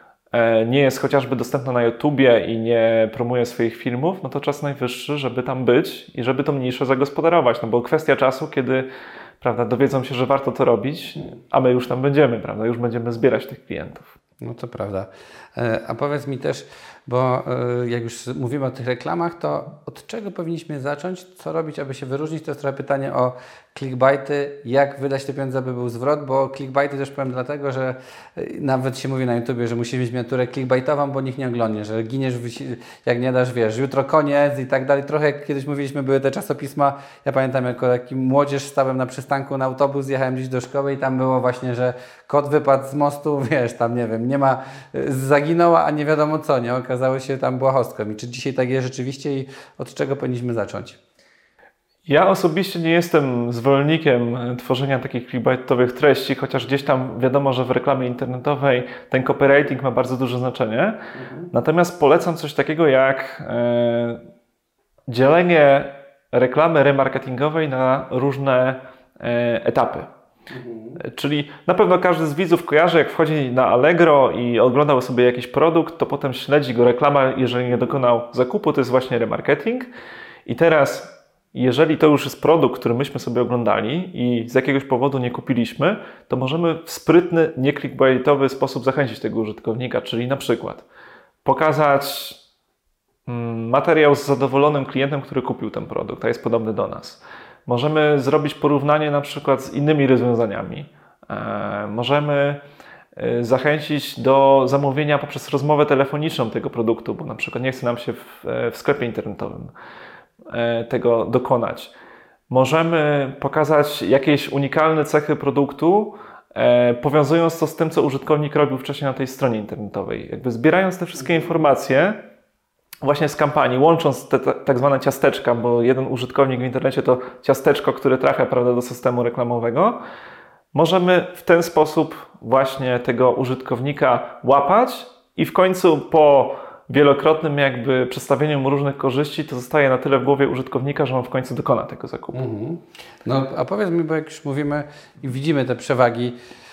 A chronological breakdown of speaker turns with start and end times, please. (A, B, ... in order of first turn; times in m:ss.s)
0:00.3-0:08.9 A
0:09.4-0:14.1 A
0:14.4-0:51.0 B
0:52.1-1:01.0 A
1:01.1-1:01.5 B
1:01.5-1:04.2 A
1:05.1-1:10.1 A
1:10.5-1:11.0 B
1:11.0-1:19.9 A
1:20.5-1:30.8 A
1:31.4-1:32.4 A
1:33.3-1:42.6 A
1:43.2-1:49.7 A
1:50.5-1:51.9 A
1:52.5-2:02.2 A
2:03.0-2:10.0 A
2:10.7-2:22.4 A
2:22.3-2:26.4 B